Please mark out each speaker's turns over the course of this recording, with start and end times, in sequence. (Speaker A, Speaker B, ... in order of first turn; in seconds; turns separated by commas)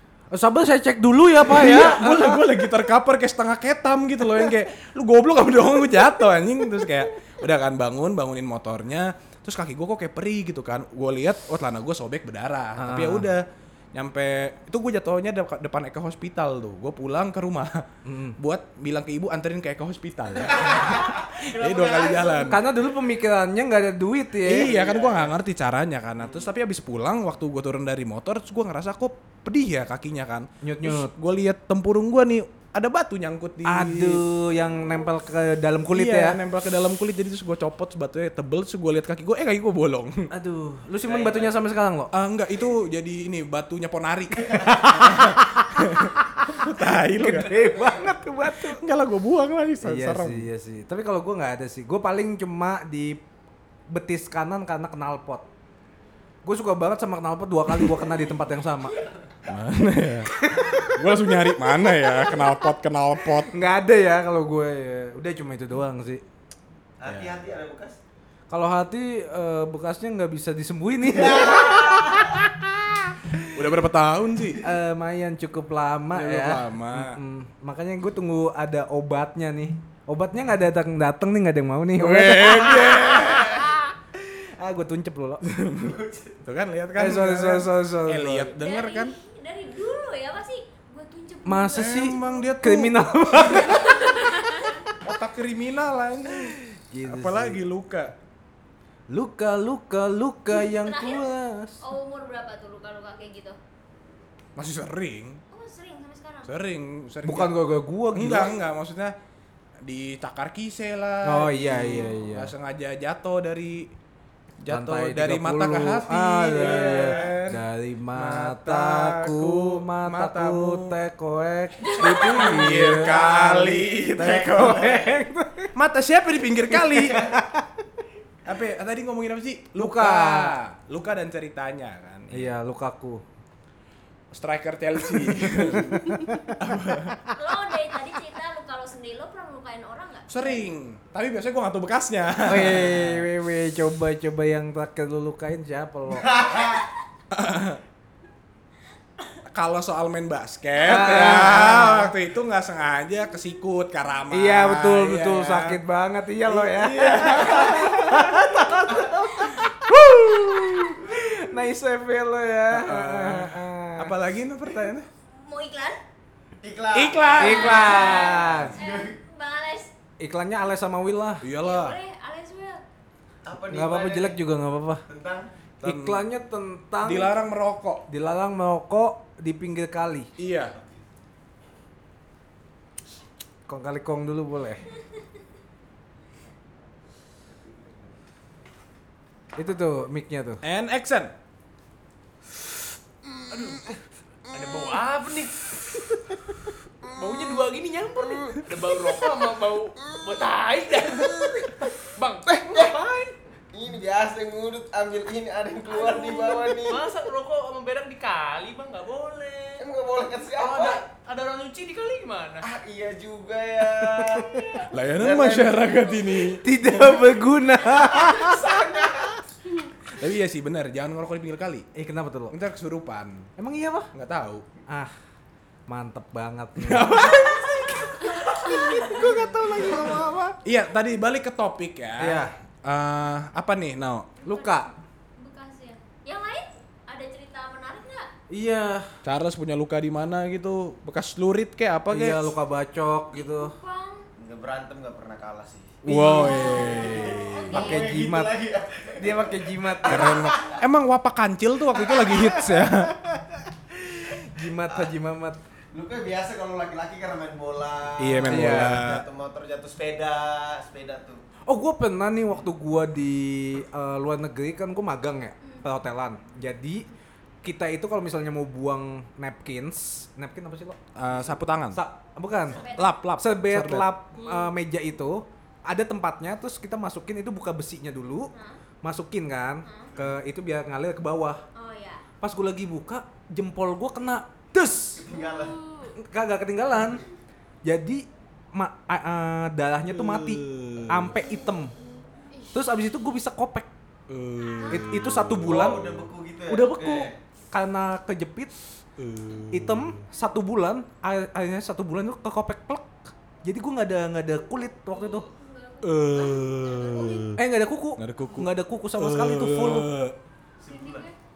Speaker A: 0.3-2.4, Speaker B: 1.4-17.8, Speaker A: 12.8-13.3, Speaker A: 18.1-18.4, Speaker B: 18.4-22.6, Speaker C: 20.5-22.6, Speaker A: 22.4-24.7, Speaker B: 24.4-34.2, Speaker C: 24.5-25.3, Speaker A: 30.6-31.1, Speaker A: 33.6-36.4, Speaker B: 35.9-40.3, Speaker A: 40.3-42.1, Speaker C: 41.0-41.5, Speaker B: 42.1-47.5, Speaker A: 44.6-48.8, Speaker C: 47.5-48.2, Speaker B: 48.6-50.5, Speaker A: 49.8-53.2, Speaker A: 53.9-55.5, Speaker A: 56.4-59.0, Speaker B: 59.5-60.3, Speaker A: 60.4-62.4, Speaker B: 60.9-63.5, Speaker A: 63.5-66.2, Speaker C: 67.0-68.0, Speaker B: 67.0-67.4, Speaker A: 68.5-73.4, Speaker C: 71.3-72.0, Speaker B: 73.5-74.6, Speaker A: 74.6-83.6, Speaker B: 76.1-77.2, Speaker B: 82.0-83.8, Speaker A: 84.3-85.4, Speaker B: 85.4-89.1, Speaker C: 85.8-86.3, Speaker A: 87.0-88.5, Speaker D: 88.5-92.5, Speaker A: 91.5-94.0, Speaker B: 91.7-93.6, Speaker D: 93.6-94.8, Speaker B: 94.9-98.1, Speaker A: 96.9-97.6, Speaker A: 99.1-101.8, Speaker D: 100.5-101.3, Speaker D: 101.8-103.6, Speaker B: 104.5-105.4, Speaker D: 105.5-106.5, Speaker B: 106.4-107.5, Speaker A: 107.2-108.6, Speaker B: 108.1-109.1, Speaker B: 109.8-113.9, Speaker A: 111.2-112.5, Speaker B: 114.6-117.6, Speaker A: 114.7-125.7, Speaker C: 116.7-117.2, Speaker B: 118.1-121.0, Speaker B: 122.0-125.0, Speaker C: 122.5-123.1, Speaker C: 124.6-125.1, Speaker B: 125.7-127.3, Speaker A: 126.9-127.6, Speaker B: 128.4-132.5, Speaker A: 129.8-130.6, Speaker A: 132.3-133.2, Speaker B: 134.3-137.2, Speaker A: 135.0-136.6, Speaker D: 137.3-140.4, Speaker B: 140.3-143.3, Speaker A: 142.4-146.6, Speaker C: 146.2-146.8, Speaker B: 147.3-147.8, Speaker B: 149.5-155.8, Speaker A: 150.8-152.1, Speaker A: 154.3-164.1, Speaker B: 156.4-158.6, Speaker B: 162.7-165.1, Speaker D: 165.4-166.0, Speaker C: 166.6-169.2, Speaker B: 166.9-168.1, Speaker A: 167.4-168.7, Speaker D: 167.4-169.9, Speaker A: 170.2-171.4, Speaker B: 171.4-172.0, Speaker D: 171.6-172.8, Speaker C: 173.4-174.4, Speaker A: 173.7-175.0, Speaker C: 175.1-175.5, Speaker A: 175.8-177.3, Speaker B: 175.8-176.2, Speaker B: 177.0-178.0, Speaker A: 178.1-180.3, Speaker B: 180.4-180.8, Speaker A: 183.7-184.9, Speaker A: 189.6-190.6, Speaker B: 190.6-191.3, Speaker E: 193.5-193.9, Speaker E: 194.5-195.7, Speaker E: 197.0-203.3, Speaker C: 202.5-203.0, Speaker C: 203.7-207.1, Speaker E: 205.9-209.9, Speaker C: 209.8-211.1, Speaker E: 210.5-212.7, Speaker C: 212.6-216.0, Speaker A: 214.0-214.9, Speaker B: 214.9-216.6, Speaker A: 216.6-218.7, Speaker C: 218.0-219.4, Speaker B: 220.1-221.9, Speaker A: 221.9-222.6, Speaker B: 222.5-223.5, Speaker A: 223.6-224.1, Speaker B: 224.1-224.6, Speaker A: 225.9-230.6, Speaker B: 226.8-228.1, Speaker B: 230.6-234.3, Speaker A: 232.2-232.5, Speaker A: 234.4-234.9, Speaker D: 234.5-238.3, Speaker A: 238.5-239.1, Speaker B: 239.2-242.5, Speaker A: 242.1-243.8, Speaker D: 243.3-244.2, Speaker C: 244.3-246.0, Speaker A: 246.0-248.6, Speaker B: 246.0-248.0, Speaker D: 246.4-248.1, Speaker C: 246.8-250.7, Speaker A: 249.2-250.5, Speaker B: 250.0-253.2, Speaker A: 252.8-253.1, Speaker A: 253.9-255.6, Speaker C: 255.9-261.4, Speaker B: 258.2-259.2, Speaker A: 258.4-259.1, Speaker A: 261.6-267.1, Speaker A: 267.6-271.0, Speaker B: 271.1-272.0, Speaker A: 271.9-272.8, Speaker D: 272.8-273.2, Speaker B: 272.9-274.1, Speaker A: 273.4-281.6, Speaker D: 274.4-274.7, Speaker D: 278.5-278.8, Speaker D: 279.8-280.1, Speaker D: 281.7-282.2, Speaker A: 282.4-285.2, Speaker C: 285.1-285.8, Speaker D: 285.3-286.1, Speaker A: 286.2-287.2, Speaker A: 287.8-291.9, Speaker B: 290.1-291.4, Speaker A: 292.7-293.9, Speaker B: 294.3-296.2, Speaker A: 294.9-296.1, Speaker C: 295.5-297.4, Speaker A: 296.7-298.7, Speaker B: 299.2-300.2, Speaker A: 299.7-303.1, Speaker A: 303.6-305.5, Speaker D: 305.1-307.5, Speaker B: 306.0-307.6, Speaker A: 307.6-310.1, Speaker B: 308.2-310.4, Speaker C: 310.8-311.3, Speaker D: 310.9-311.3